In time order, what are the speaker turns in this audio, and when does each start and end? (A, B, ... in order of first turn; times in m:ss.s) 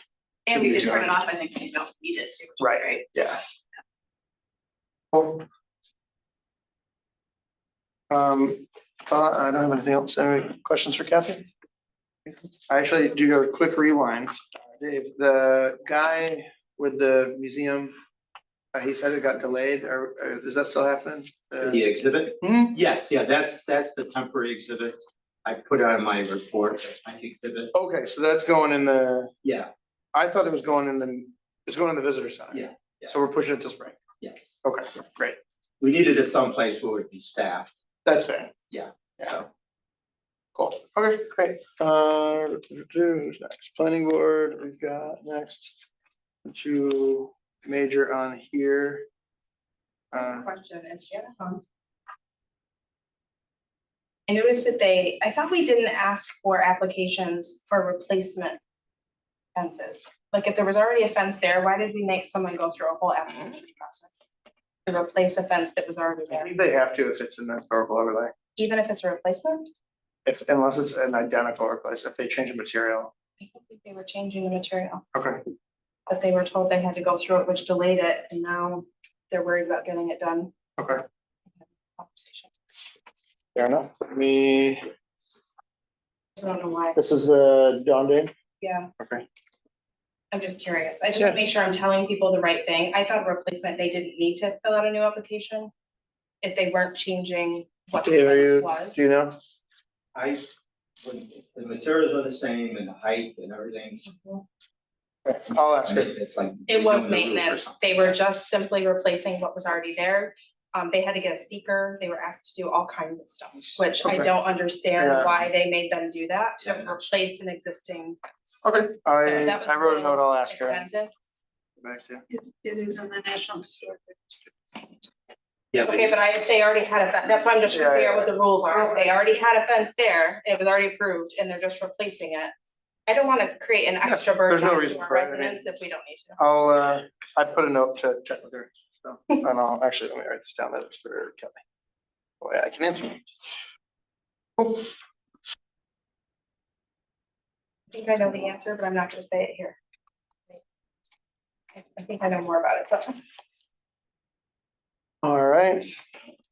0:00.5-0:03.0 A
0:00.5-0:01.1 B
0:02.6-0:03.4 B
0:05.1-0:05.4 B
0:08.1-0:11.5 B
0:12.3-0:17.9 B
0:18.7-0:21.8 B
0:21.6-0:27.7 C
0:22.4-0:22.8 B
0:27.7-0:29.3 B
0:29.4-0:29.7 C
0:30.1-0:34.0 B
0:32.5-0:33.1 C
0:34.2-0:34.5 C
0:34.6-0:35.4 B
0:35.8-0:37.7 C
0:38.0-0:38.5 B
0:38.7-0:39.5 C
0:40.6-0:45.8 B
0:46.4-0:49.0 B
0:50.1-0:51.6 D
0:50.1-0:50.4 B
0:54.3-0:58.6 D
0:59.5-1:04.3 D
1:04.8-1:06.5 D
1:06.3-1:08.3 B
1:08.6-1:09.6 D
1:10.2-1:13.1 B
1:13.4-1:15.0 D
1:15.1-1:15.4 B
1:16.1-1:20.5 D
1:21.6-1:22.5 D
1:23.5-1:24.8 B
1:26.4-1:27.0 D
1:26.9-1:28.3 B
1:28.6-1:28.9 D
1:29.0-1:29.2 B
1:30.3-1:35.7 D
1:36.4-1:39.0 D
1:38.0-1:39.3 B
1:40.1-1:40.4 C
1:41.0-1:44.0 C
1:44.0-1:44.4 D
1:45.2-1:46.1 B
1:45.8-1:48.1 C
1:46.7-2:01.1 D
1:54.0-1:54.3 B
1:55.0-1:55.3 B
1:58.6-2:00.8 B
2:01.8-2:02.2 B
2:05.7-2:06.1 C
2:05.8-2:12.5 D
2:07.7-2:09.1 B
2:13.1-2:16.4 D
2:14.0-2:15.6 B
2:16.4-2:21.6 B
2:22.4-2:23.2 B
2:24.6-2:24.9 B
2:27.9-2:29.8 D
2:31.7-2:33.2 D
2:35.2-2:36.0 B